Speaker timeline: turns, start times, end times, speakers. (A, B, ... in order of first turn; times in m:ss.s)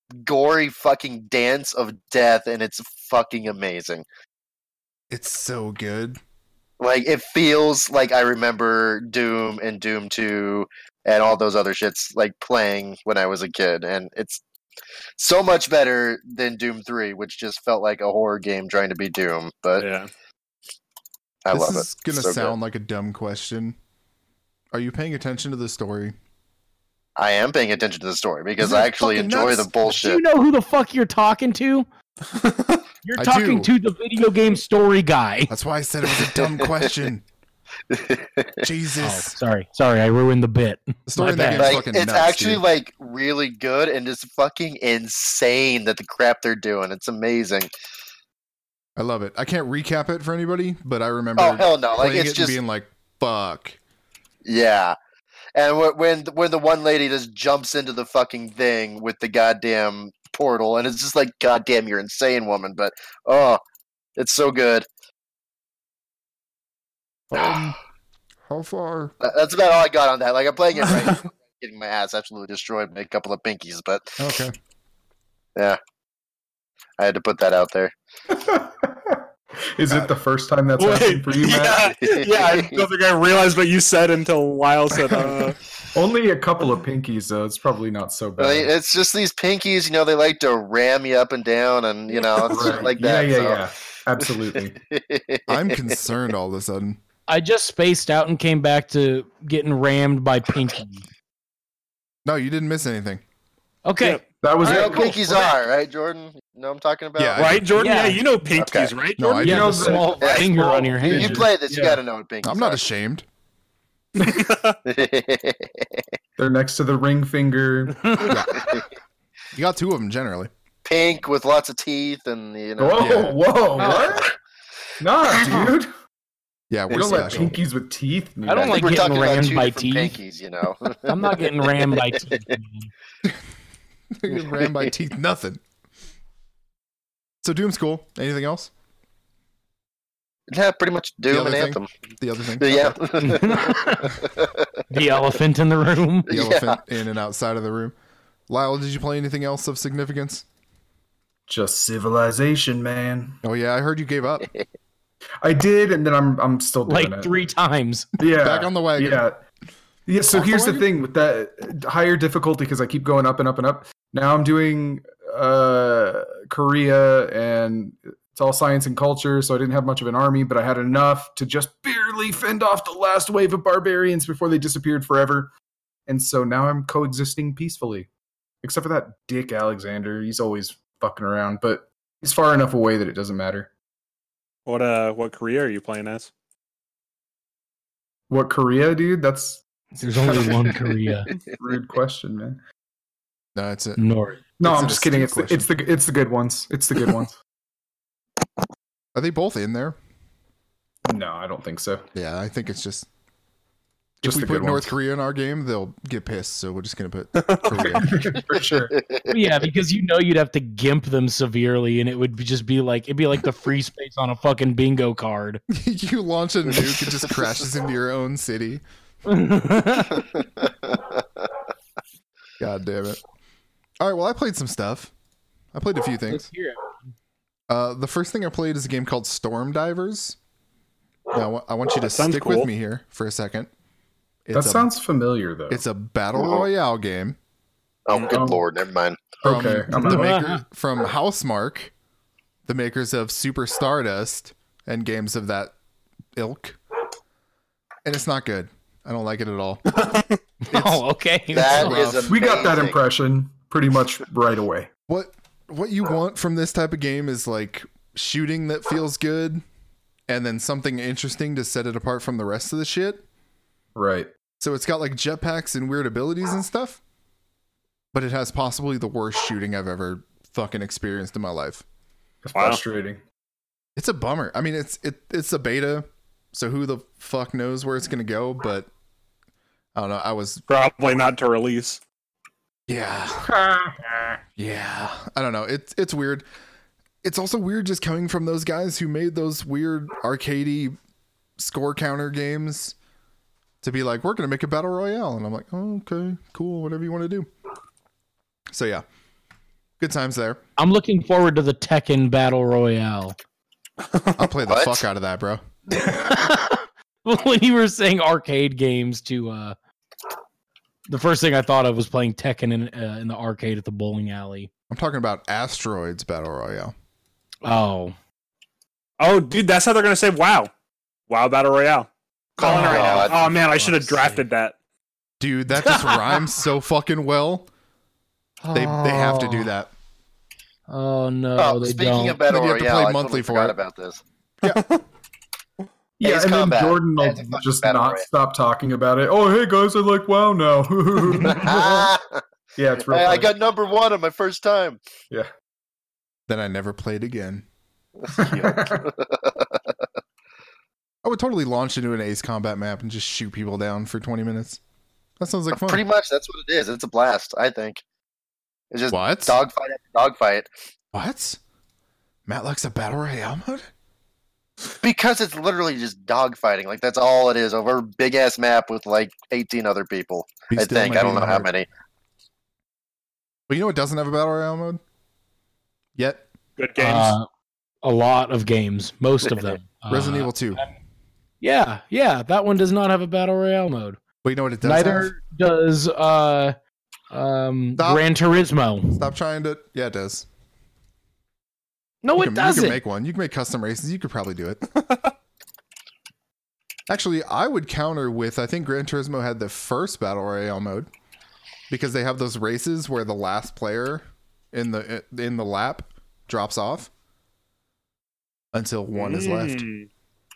0:00.2-0:04.0 A
0:05.1-0:06.2 B
0:06.8-0:14.4 A
0:15.2-0:19.8 A
0:19.8-0:20.1 C
0:21.4-0:22.5 A
0:21.5-0:23.8 B
0:24.7-0:26.2 B
0:27.2-0:30.2 A
0:28.6-0:29.7 B
0:29.8-0:31.9 D
0:32.3-0:32.8 C
0:33.0-0:35.5 D
0:33.2-0:33.7 B
0:35.5-0:37.2 B
0:36.4-0:36.9 A
0:37.9-0:38.6 A
0:38.6-0:39.4 B
0:39.0-0:41.8 D
0:41.1-0:42.6 B
0:41.6-0:47.7 A
0:49.0-0:53.8 B
0:51.4-0:52.5 A
0:54.4-0:55.0 A
0:55.6-1:03.6 A
1:04.2-1:04.8 A
1:07.3-1:07.8 B
1:08.4-1:09.1 B
1:09.2-1:14.2 A
1:14.2-1:14.6 B
1:17.0-1:17.9 A
1:18.3-1:21.8 E
1:20.8-1:25.6 C
1:21.9-1:22.8 A
1:24.9-1:28.7 E
1:28.4-1:33.7 A
1:32.4-1:34.8 E
1:34.7-1:36.0 A
1:35.5-1:37.0 B
1:37.3-1:41.0 D
1:42.2-1:43.2 B
1:43.8-1:45.1 D
1:44.4-1:45.5 E
1:44.6-1:47.6 A
1:47.2-1:47.7 B
1:47.4-1:50.0 C
1:47.8-1:48.2 D
1:48.6-1:48.9 A
1:49.2-1:50.1 B
1:49.4-1:51.5 D
1:49.4-1:52.0 E
1:50.2-1:52.8 A
1:52.4-1:53.3 B
1:54.2-1:54.5 E
1:54.2-1:54.8 C
1:54.8-1:56.0 A
1:56.4-1:58.3 E
1:58.0-1:58.6 D
1:58.3-1:58.8 B
1:58.5-1:58.8 A
1:59.5-2:00.5 B
2:00.8-2:04.3 A
2:02.8-2:04.3 E
2:03.0-2:03.4 B
2:03.8-2:04.2 D
2:05.0-2:05.9 E
2:06.7-2:07.6 B
2:06.9-2:09.2 E
2:08.4-2:10.2 D
2:08.7-2:12.2 A
2:11.0-2:12.9 D
2:14.1-2:15.6 B
2:14.3-2:14.9 A
2:17.4-2:18.7 B
2:20.5-2:21.9 A
2:21.3-2:23.0 B
2:22.6-2:24.7 A
2:23.2-2:24.2 D
2:24.9-2:26.3 D
2:26.3-2:26.8 A
2:26.3-2:27.9 B
2:28.5-2:30.4 B
2:31.5-2:33.4 E
2:33.4-2:34.5 B
2:35.4-2:37.4 E
2:36.8-2:38.1 D
2:38.2-2:39.4 E
2:38.2-2:39.2 B
2:40.1-2:55.5 E
2:40.3-2:40.9 B
2:56.1-2:58.1 E
2:58.6-3:03.7 E
3:04.6-3:06.3 C
3:08.3-3:09.6 E
3:09.9-3:11.3 D
3:10.2-3:10.8 E
3:11.6-3:12.6 E
3:13.6-3:14.1 B
3:14.0-3:14.4 D
3:14.6-3:17.4 E
3:14.6-3:15.7 B
3:19.1-3:20.0 B
3:21.0-3:22.1 E
3:22.1-3:23.1 B
3:24.2-3:28.4 B
3:24.2-3:24.9 E
3:27.8-3:28.9 E
3:28.5-3:29.4 A
3:29.3-3:35.6 D
3:35.7-3:38.8 B
3:36.8-3:37.5 A
3:39.2-3:40.3 D
3:40.0-3:41.4 A
3:42.6-3:43.2 B
3:44.0-3:45.1 B
3:45.7-3:46.4 B
3:46.3-3:46.9 D
3:47.7-3:50.4 B
3:51.3-3:53.7 B
3:52.0-3:52.7 C
3:54.5-3:54.9 B
3:54.5-3:55.8 E
3:55.7-3:57.4 B
3:56.3-3:56.6 A
3:58.1-3:59.4 A
3:58.3-3:58.6 E
3:59.4-4:00.3 E
3:59.4-4:01.9 B
4:00.0-4:00.6 D
4:02.6-4:05.7 B
4:06.4-4:06.8 B
4:08.0-4:10.0 B
4:09.9-4:10.4 C
4:10.6-4:12.0 D
4:10.7-4:11.0 B
4:11.5-4:13.0 A
4:11.6-4:12.4 B
4:12.2-4:14.9 E
4:15.1-4:19.6 B
4:20.3-4:23.2 B
4:24.0-4:24.3 E
4:24.6-4:27.0 B
4:28.1-4:31.8 B
4:32.4-4:33.2 E
4:32.5-4:32.8 C
4:34.0-4:38.9 B
4:39.9-4:40.6 B
4:40.7-4:42.0 C
4:42.9-4:43.5 B
4:43.4-4:44.3 E
4:44.6-4:46.4 B
4:47.2-4:50.9 B
4:51.6-4:52.9 B
4:53.8-4:57.5 B
4:58.7-4:59.0 B
5:00.0-5:00.6 B
5:00.8-5:03.4 D
5:04.4-5:05.6 B
5:04.7-5:05.0 A
5:05.9-5:09.8 D
5:11.1-5:14.7 D
5:14.9-5:16.9 B
5:17.6-5:18.2 D
5:19.2-5:20.7 C
5:21.3-5:24.7 C
5:22.6-5:23.4 A
5:22.6-5:24.4 D
5:25.4-5:27.7 B
5:25.8-5:26.5 D
5:28.6-5:29.7 D
5:28.7-5:29.9 B
5:30.9-5:32.4 D
5:31.6-5:34.2 A
5:32.4-5:33.8 B
5:34.6-5:35.0 C
5:36.2-5:42.1 E
5:36.2-5:38.2 A
5:41.3-5:41.6 D
5:41.4-5:42.4 A
5:42.8-5:43.5 E
5:43.1-5:45.0 A
5:46.5-5:47.6 B
5:48.3-5:49.0 E
5:48.3-5:49.9 A
5:51.2-5:54.8 B
5:55.4-5:56.0 B
5:55.7-5:58.0 A
5:58.9-6:00.7 A
5:59.1-5:59.6 B
6:01.1-6:01.6 B
6:02.4-6:03.9 B
6:05.0-6:11.9 A
6:10.7-6:11.7 B
6:13.7-6:15.0 B
6:16.2-6:16.4 B
6:16.8-6:17.3 C
6:17.0-6:17.5 D
6:18.0-6:20.9 D
6:20.1-6:20.8 B
6:21.6-6:24.2 D
6:24.4-6:25.3 B
6:24.8-6:26.8 D
6:27.3-6:29.3 D
6:28.0-6:28.2 B
6:29.1-6:30.5 B
6:32.2-6:33.0 D
6:32.4-6:34.9 B
6:37.1-6:41.1 B
6:41.9-6:47.1 B
6:48.7-6:49.8 B
6:49.1-6:50.1 C